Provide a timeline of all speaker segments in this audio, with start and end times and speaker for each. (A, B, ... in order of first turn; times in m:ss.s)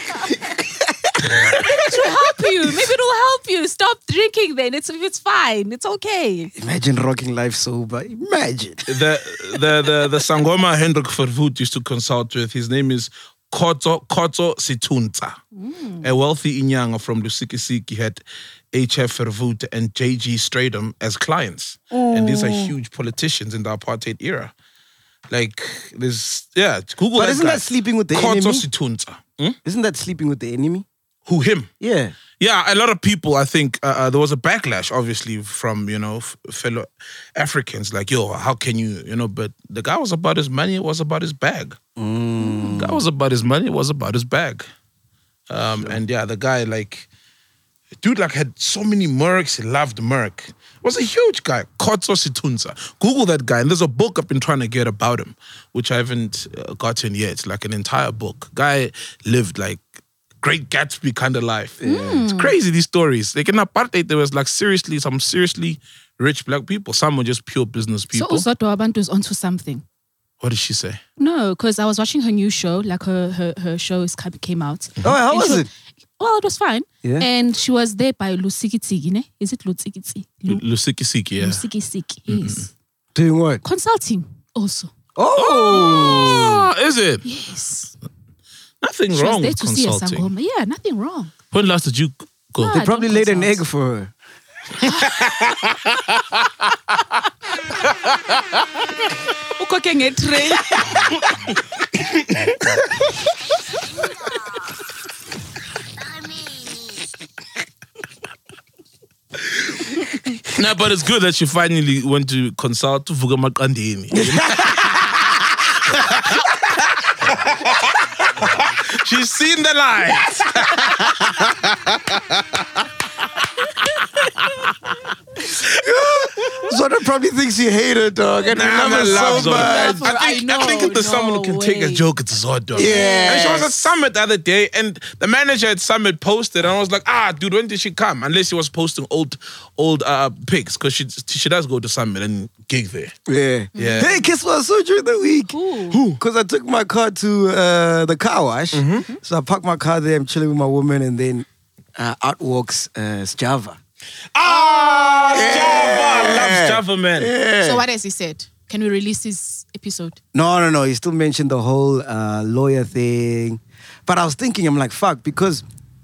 0:00.4-0:02.0 A
0:01.5-0:06.5 B
0:06.6-0:08.9 A
0:08.9-0:15.4 C
0:15.5-0:16.1 B
0:16.0-0:18.2 C
0:18.7-0:24.5 C
0:21.9-0:22.7 A
0:25.3-0:29.6 C
0:27.1-0:28.6 A
0:29.6-0:30.8 A
0:31.2-0:31.7 C
0:31.8-0:32.2 A
0:32.4-0:41.8 C
0:42.0-0:43.0 A
0:42.4-0:42.7 B
0:42.7-0:44.7 C
0:45.5-0:47.1 C
0:48.0-0:59.8 C
1:00.4-1:08.4 C
1:01.8-1:02.3 A
1:01.8-1:02.5 B
1:08.1-1:09.8 B
1:10.4-1:11.0 C
1:11.2-1:15.7 B
1:15.0-1:15.7 A
1:16.2-1:20.6 B
1:17.0-1:17.3 A
1:20.5-1:21.6 C
1:21.4-1:22.7 B
1:22.3-1:22.7 C
1:23.1-1:23.6 A
1:23.6-1:24.9 B
1:25.2-1:26.6 A
1:25.4-1:27.2 C
1:25.7-1:26.5 B
1:27.2-1:27.9 B
1:28.8-1:30.3 C
1:29.1-1:31.3 B
1:31.5-1:32.9 C
1:32.6-1:33.6 B
1:32.7-1:34.1 A
1:34.8-1:35.2 B
1:35.1-1:36.2 C
1:37.9-1:38.6 C
1:39.6-1:41.0 B
1:42.2-1:42.6 C
1:50.5-1:55.3 C
1:54.1-1:55.3 A
1:55.8-1:56.4 C
1:57.2-2:02.6 C
2:00.4-2:01.4 A
2:04.2-2:04.7 C
2:05.4-2:10.0 A
2:08.5-2:23.1 C
2:08.7-2:12.0 B
2:12.7-2:13.6 B
2:12.8-2:13.7 A
2:23.3-2:33.8 A
2:23.7-2:24.3 B
2:23.8-2:24.1 C
2:25.5-2:26.0 B
2:25.9-2:26.2 C
2:28.7-2:29.1 C
2:34.3-2:37.3 C
2:34.8-2:35.2 B
2:35.2-2:37.8 A
2:37.6-2:40.2 B
2:40.3-2:45.6 A